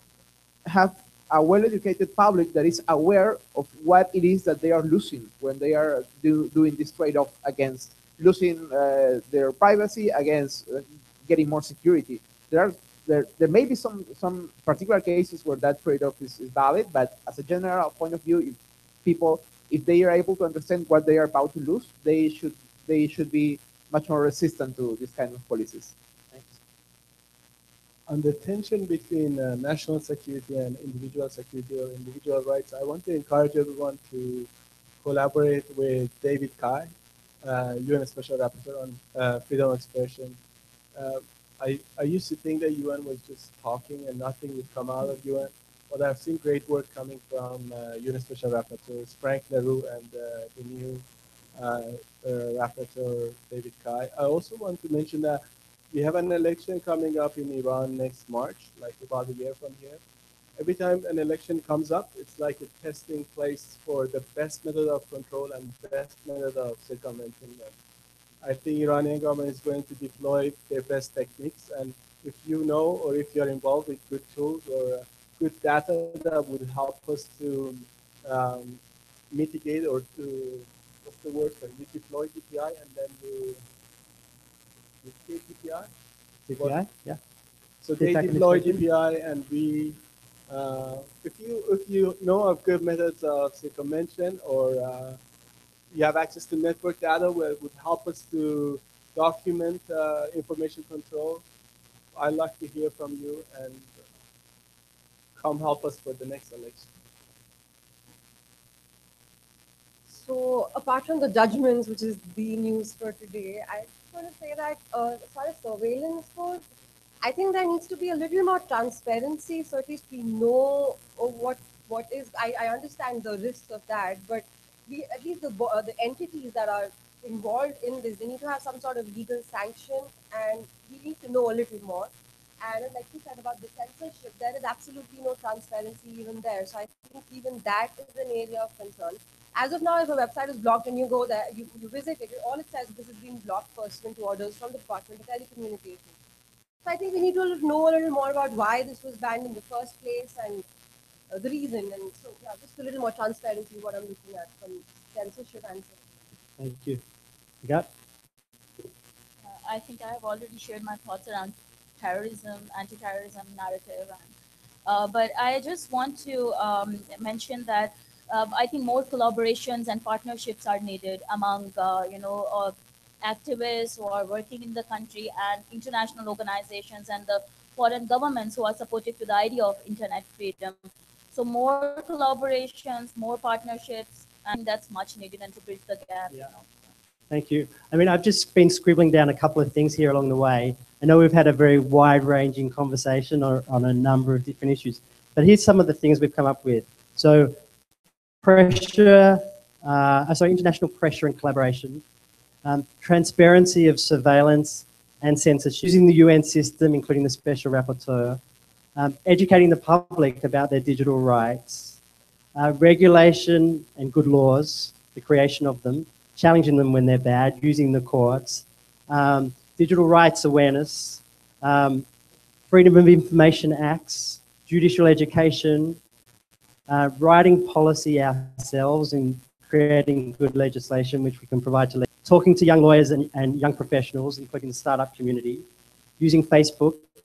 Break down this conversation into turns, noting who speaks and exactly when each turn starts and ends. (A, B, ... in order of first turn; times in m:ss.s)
0:00.7-0:26.0 A
0:28.1-0:34.5 B
0:35.0-0:36.9 B
0:37.4-0:40.4 B
0:41.0-0:51.0 B
0:51.6-1:00.0 B
1:00.6-1:07.7 B
1:08.4-1:18.8 B
1:19.3-1:23.6 B
1:25.0-1:25.9 B
1:26.5-1:27.2 C
1:27.8-1:35.2 B
1:28.0-1:28.8 C
1:35.9-1:41.4 B
1:42.2-1:44.0 B
1:45.4-1:46.9 B
1:50.1-1:56.6 D
1:57.2-2:12.1 D
2:12.6-2:26.1 D
2:26.8-2:30.6 D
2:31.3-2:36.0 D
2:36.6-2:37.0 C
2:37.6-2:37.9 C
2:39.5-2:44.3 E
2:44.9-3:00.8 E
3:01.3-3:06.6 E
3:07.3-3:17.6 C
3:18.4-3:22.0 C
3:22.6-3:28.4 C
3:29.0-3:32.0 C
3:32.6-3:42.1 C
3:42.7-3:46.0 C
3:46.9-3:55.7 C
3:56.2-3:57.0 C